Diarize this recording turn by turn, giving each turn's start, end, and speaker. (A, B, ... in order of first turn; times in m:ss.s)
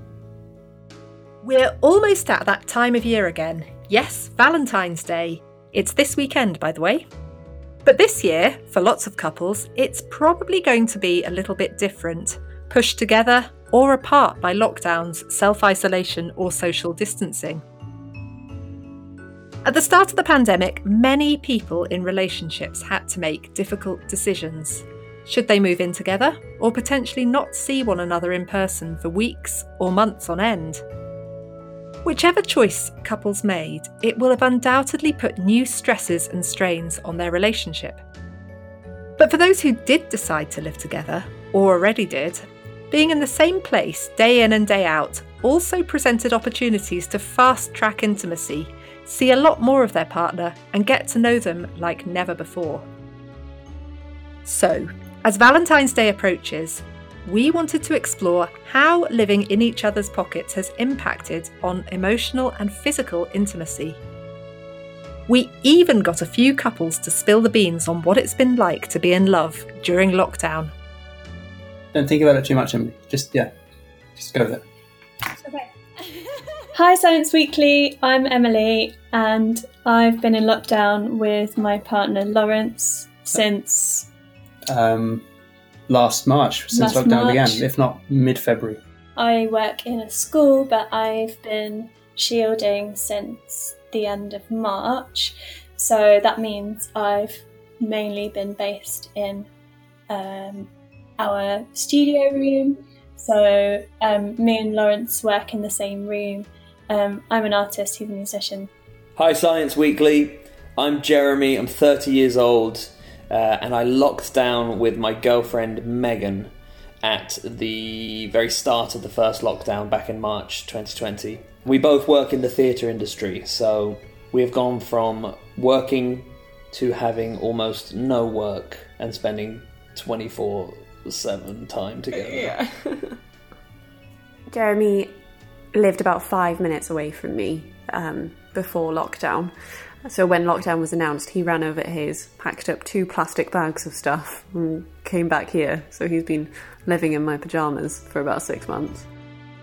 0:01.4-0:07.0 A
0:07.8-0:17.6 A
0:19.6-0:30.8 A
0:32.0-0:38.0 A
0:39.2-0:52.8 A
0:54.4-1:04.0 A
1:05.3-1:10.7 A
1:11.9-1:13.5 B
1:14.2-1:14.6 B
1:15.4-1:24.1 C
1:24.7-1:25.2 B
1:25.9-1:28.8 B
1:26.7-1:27.6 C
1:29.2-1:39.5 C
1:40.1-1:48.7 C
1:49.2-2:12.5 D
2:12.2-2:13.0 E
2:14.5-2:15.1 E
2:15.7-2:19.5 E
2:20.0-2:29.1 E